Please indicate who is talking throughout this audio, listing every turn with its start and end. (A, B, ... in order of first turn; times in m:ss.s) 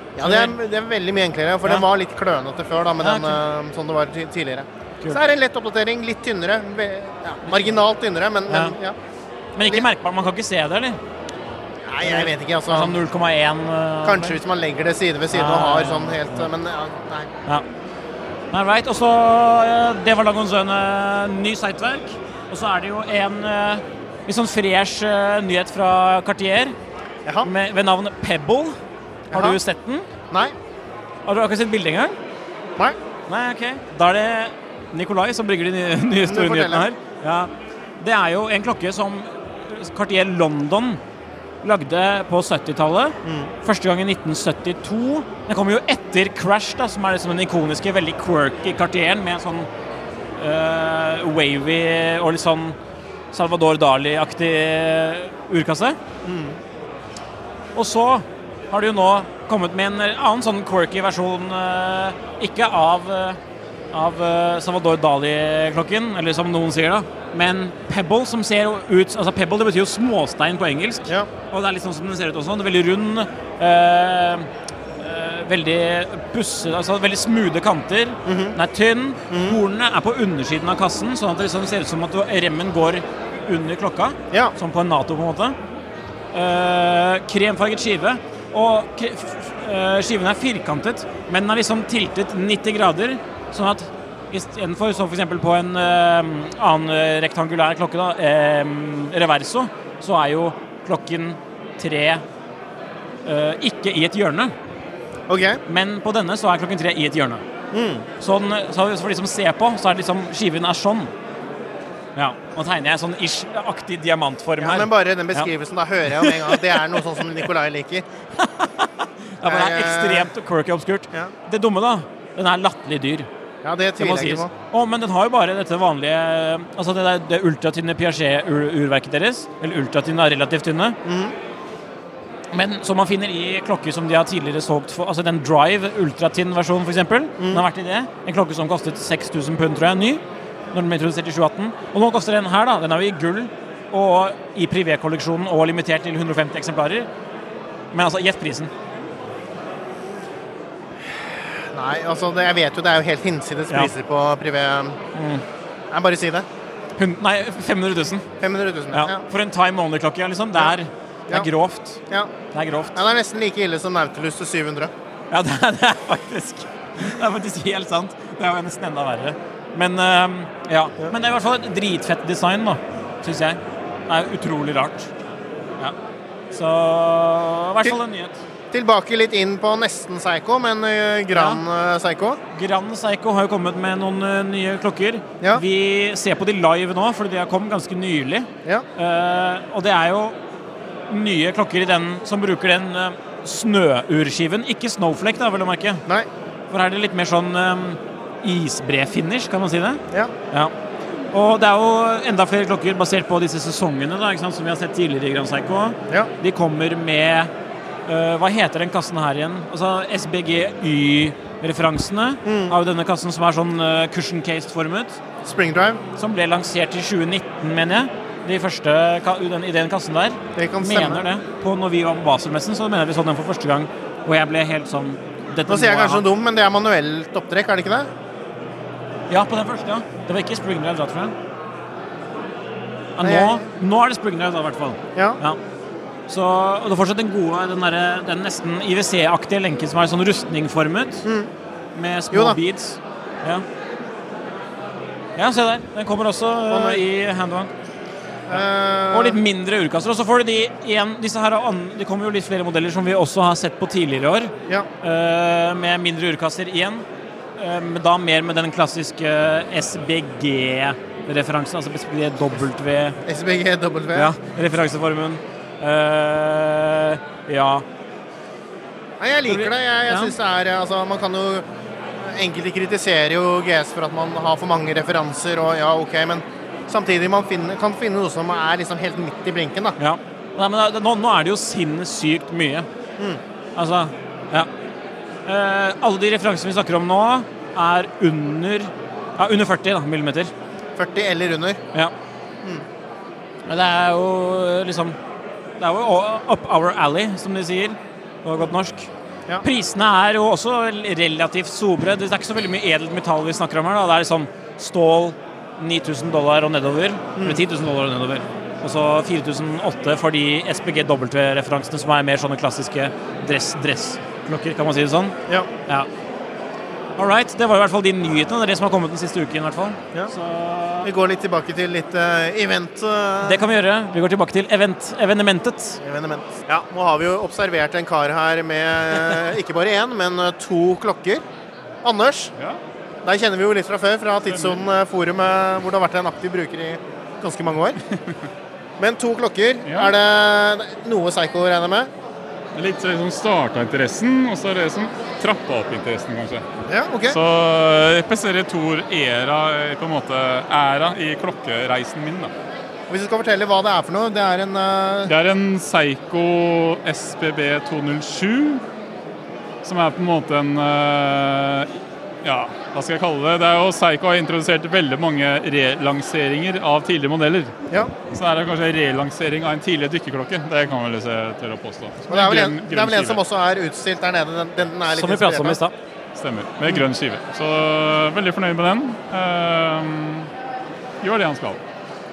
0:00.2-0:09.0 A
0:00.2-0:00.6 B
0:03.0-0:03.4 B
0:07.4-0:07.8 B
0:08.5-0:08.8 B
0:09.6-0:11.0 B
0:11.9-0:13.0 A
0:12.0-0:14.4 B
0:14.0-0:17.3 A
0:15.3-0:16.5 B
0:18.5-0:26.8 B
0:27.4-0:28.8 B
0:29.3-0:29.6 A
0:29.3-0:30.0 B
0:31.3-0:32.2 B
0:33.3-0:41.0 B
0:36.2-0:36.9 A
0:41.6-0:49.7 B
0:43.2-0:43.5 A
0:50.4-0:52.8 B
0:53.3-0:56.0 B
0:56.2-0:56.6 A
0:57.8-1:03.4 B
1:03.9-1:25.6 B
1:18.3-1:18.6 A
1:19.3-1:19.6 A
1:26.3-1:42.2 B
1:43.3-1:44.5 B
1:45.3-1:45.6 A
1:45.7-1:47.4 B
1:47.7-1:48.1 A
1:48.2-1:51.1 B
1:52.2-1:55.5 B
1:54.6-1:58.0 A
1:56.1-1:57.0 B
1:58.4-1:58.9 B
1:59.4-2:03.3 B
1:59.4-2:00.3 A
2:03.6-2:04.5 A
2:04.0-2:11.0 B
2:11.0-2:11.4 A
2:12.5-2:20.2 B
2:20.7-2:27.1 B
2:27.9-2:28.7 B
2:31.7-2:35.0 A
2:35.2-2:35.4 B
2:35.9-2:36.5 A
2:37.0-2:38.2 B
2:38.4-2:39.2 A
2:38.9-2:42.0 B
2:42.5-2:43.0 B
2:42.9-2:44.9 A
2:45.3-2:55.1 B
2:56.5-2:58.4 B
2:58.7-3:02.4 A
3:01.3-3:01.6 B
3:02.5-3:10.4 B
3:11.1-3:16.0 B
3:16.7-3:20.7 B
3:21.3-3:27.5 B
3:28.1-3:35.2 B
3:32.4-3:32.8 A
3:35.4-3:36.0 A
3:36.2-3:46.2 B
3:40.6-3:41.2 A
3:45.7-3:48.1 A
3:49.3-3:51.3 B
3:53.2-3:55.6 B
3:53.2-3:53.6 A
3:56.3-4:01.3 B
4:01.2-4:01.5 A
4:02.0-4:03.6 B
4:02.3-4:02.6 A
4:05.4-4:07.7 B
4:06.7-4:07.0 A
4:08.5-4:09.4 A
4:08.5-4:17.0 B
4:17.6-4:23.2 B
4:23.3-4:24.3 A
4:24.1-4:27.8 B
4:29.2-4:31.6 A
4:29.5-4:30.4 B
4:32.3-4:40.0 A
4:40.0-4:42.9 B
4:43.8-4:44.7 B
4:45.5-4:50.5 B
4:51.0-4:51.8 A
4:53.7-4:55.2 B
4:55.8-4:59.1 B
4:59.6-5:15.4 B
5:07.4-5:07.6 A
5:17.2-5:21.1 B
5:21.0-5:23.7 A
5:23.4-5:26.0 B
5:26.0-5:31.4 A
5:32.0-5:32.5 A
5:33.2-5:38.0 A
5:34.5-5:34.8 C
5:39.0-5:42.1 A
5:39.9-5:40.1 C
5:42.8-5:46.6 C
5:46.9-5:47.4 A
5:47.3-5:52.5 C
5:53.1-5:55.3 A
5:55.3-5:58.8 C
5:59.8-6:01.9 C
6:02.4-6:07.7 C
6:08.3-6:13.4 C
6:12.3-6:15.8 A
6:15.1-6:16.0 B
6:16.4-6:20.5 C
6:21.2-6:21.8 C